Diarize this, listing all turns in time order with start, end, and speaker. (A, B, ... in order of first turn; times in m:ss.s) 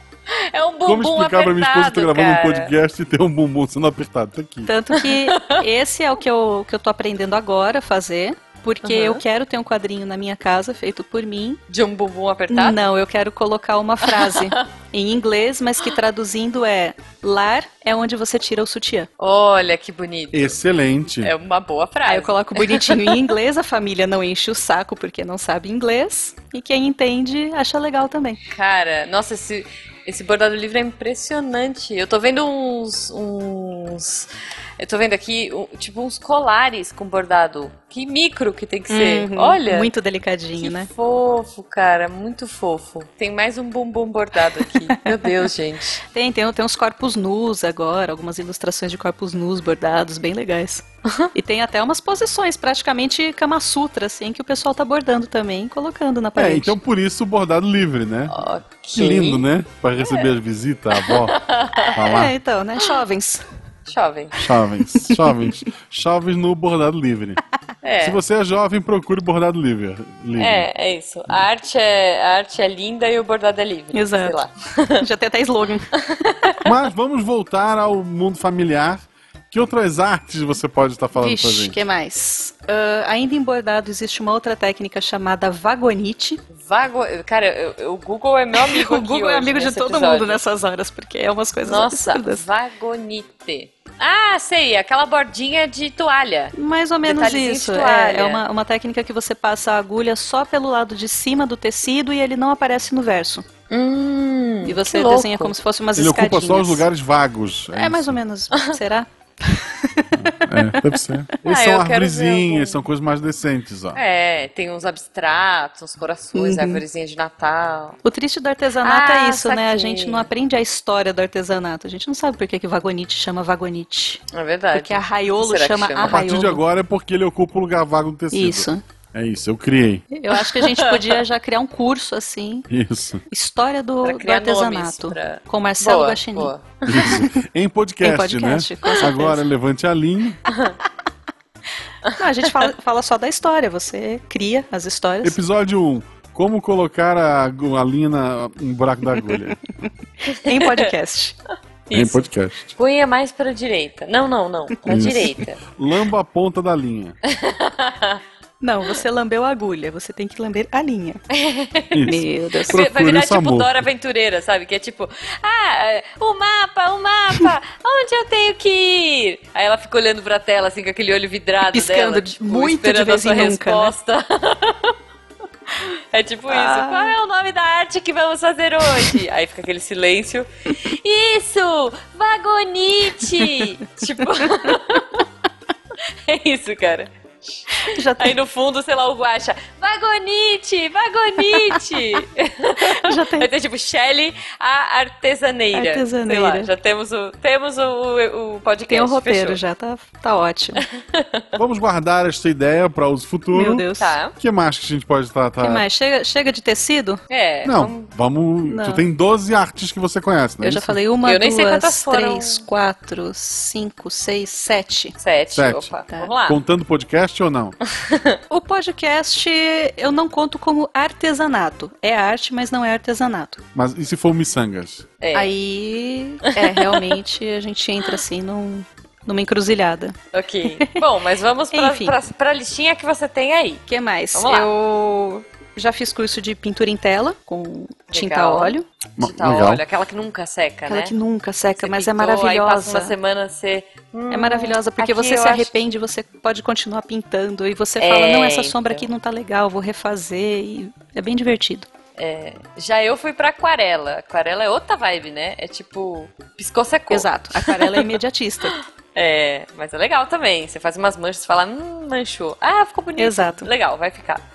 0:00.3-0:02.7 A
0:00.8-0:04.7 B
0:04.6-0:11.6 C
0:04.9-0:05.6 A
0:08.8-0:09.2 A
0:11.7-0:12.8 A
0:12.5-0:19.1 C
0:14.0-0:14.6 A
0:19.2-0:20.6 A
0:20.3-0:21.3 B
0:21.2-0:23.3 A
0:22.0-0:28.4 C
0:28.5-0:39.9 A
0:38.9-0:40.9 C
0:40.6-0:46.0 A
0:46.1-0:56.7 C
0:56.4-0:58.4 B
0:58.3-0:59.4 A
0:59.0-1:01.4 B
1:00.0-1:00.3 A
1:00.9-1:02.1 A
1:01.9-1:02.3 B
1:02.0-1:03.4 C
1:03.9-1:04.4 A
1:04.4-1:07.4 B
1:04.9-1:05.3 C
1:07.8-1:08.2 A
1:08.0-1:10.7 B
1:10.4-1:15.0 A
1:13.9-1:14.4 C
1:15.0-1:15.9 C
1:16.0-1:16.6 A
1:16.6-1:21.8 B
1:21.2-1:26.4 C
1:26.5-1:30.4 A
1:28.5-1:32.4 C
1:31.6-1:38.4 A
1:36.5-1:43.4 C
1:43.7-1:45.5 A
1:44.6-1:46.8 C
1:46.0-1:48.2 B
1:47.7-1:51.0 C
1:50.1-1:54.0 B
1:51.4-1:52.8 A
1:53.9-1:58.0 A
1:56.3-1:56.8 C
1:58.0-2:04.2 C
1:58.8-2:00.3 A
2:04.3-2:06.2 A
2:04.7-2:06.6 C
2:06.0-2:10.0 B
2:08.3-2:08.8 C
2:10.1-2:12.7 C
2:10.3-2:11.2 A
2:12.7-2:13.2 B
2:13.3-2:17.4 C
2:14.0-2:16.9 A
2:16.9-2:20.4 B
2:18.0-2:19.4 C
2:20.5-2:20.8 A
2:22.0-2:22.7 A
2:22.1-2:25.4 C
2:25.2-2:29.6 B
2:29.3-2:31.4 C
2:30.3-2:30.9 A
2:31.9-2:35.6 A
2:31.9-2:32.7 B
2:34.8-2:37.2 B
2:37.3-2:38.2 A
2:38.6-2:41.2 C
2:41.3-2:54.9 A
2:41.9-2:43.8 B
2:42.0-2:42.8 C
2:51.7-2:53.9 C
2:55.8-3:05.2 A
2:56.5-2:57.1 C
3:06.2-3:07.1 A
3:07.7-3:19.6 A
3:07.7-3:08.4 C
3:11.5-3:11.8 C
3:12.8-3:13.5 C
3:15.7-3:16.7 C
3:18.9-3:20.8 C
3:20.8-3:21.4 A
3:21.6-3:23.8 B
3:23.5-3:24.2 C
3:24.0-3:24.4 A
3:24.4-3:25.8 B
3:25.6-3:27.2 C
3:27.3-3:28.1 A
3:27.6-3:31.0 B
3:28.6-3:29.0 C
3:30.6-3:35.1 C
3:31.2-3:32.6 A
3:35.2-3:36.6 A
3:35.5-3:35.9 B
3:36.5-3:37.8 B
3:37.9-3:38.4 A
3:38.5-3:43.6 C
3:43.7-3:45.0 B
3:45.2-3:45.5 A
3:45.3-3:50.2 C
3:46.5-3:47.2 A
3:50.3-3:53.8 A
3:51.7-3:52.1 C
3:53.9-3:58.8 C
3:54.3-3:54.7 A
3:58.1-4:01.1 A
3:59.2-3:59.8 B
4:00.9-4:03.1 C
4:01.8-4:05.8 A
4:04.3-4:11.9 C
4:08.0-4:09.0 A
4:12.2-4:24.4 A
4:17.1-4:18.8 C
4:23.2-4:23.7 C